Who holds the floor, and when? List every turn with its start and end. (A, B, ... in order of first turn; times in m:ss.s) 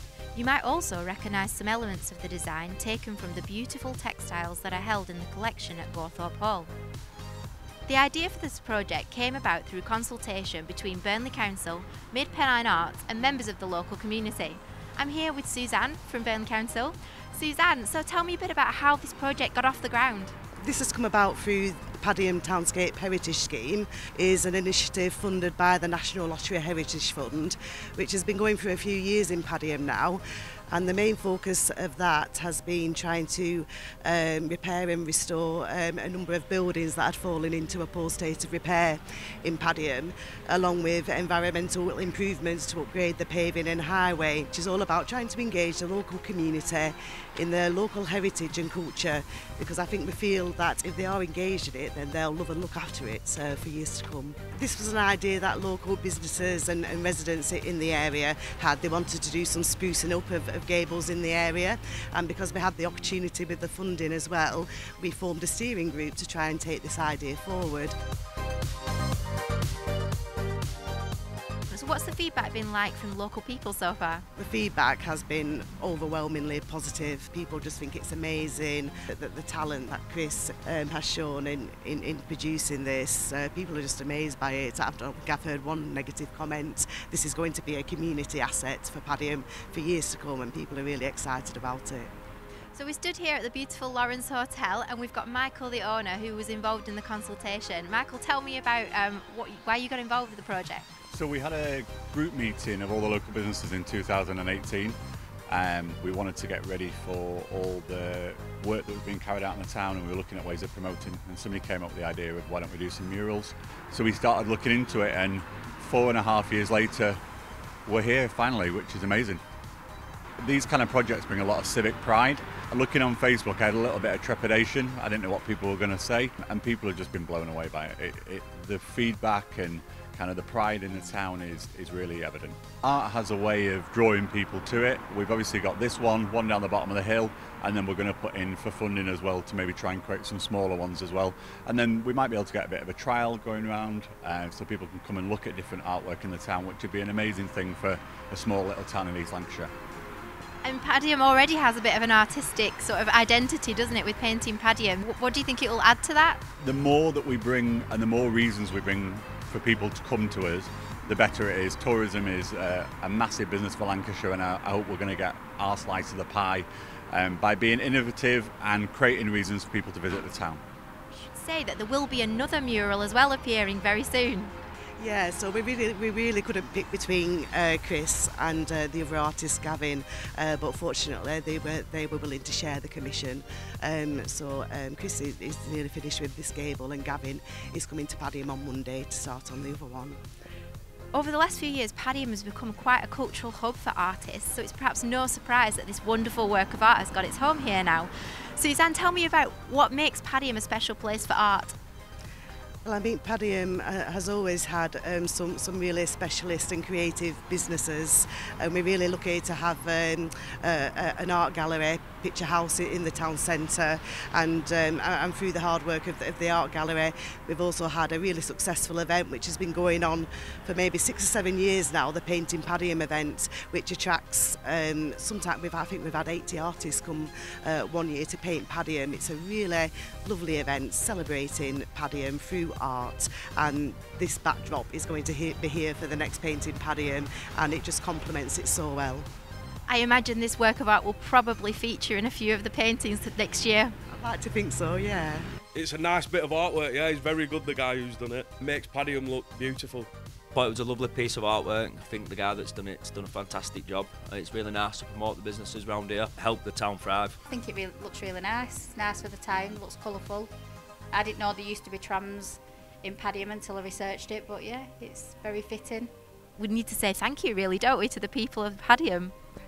0:00.3-0:06.7 A
0:07.9-0:20.3 A
0:20.6-1:07.9 B
1:11.7-1:14.2 A
1:14.4-1:32.1 B
1:32.7-1:40.9 A
1:41.1-1:45.0 C
1:45.5-1:57.2 C
1:57.9-1:59.4 C
2:00.4-2:29.7 C
2:30.6-2:36.4 A
2:36.6-2:50.6 C
2:51.1-2:54.6 A
2:55.0-3:10.2 B
3:11.1-3:21.8 A
3:22.8-3:59.2 B
3:59.9-4:04.0 A
4:04.1-4:05.5 B
4:05.8-4:10.1 D
4:10.5-4:17.4 E
4:17.5-4:20.5 F
4:21.1-4:26.1 F
4:26.6-4:29.3 A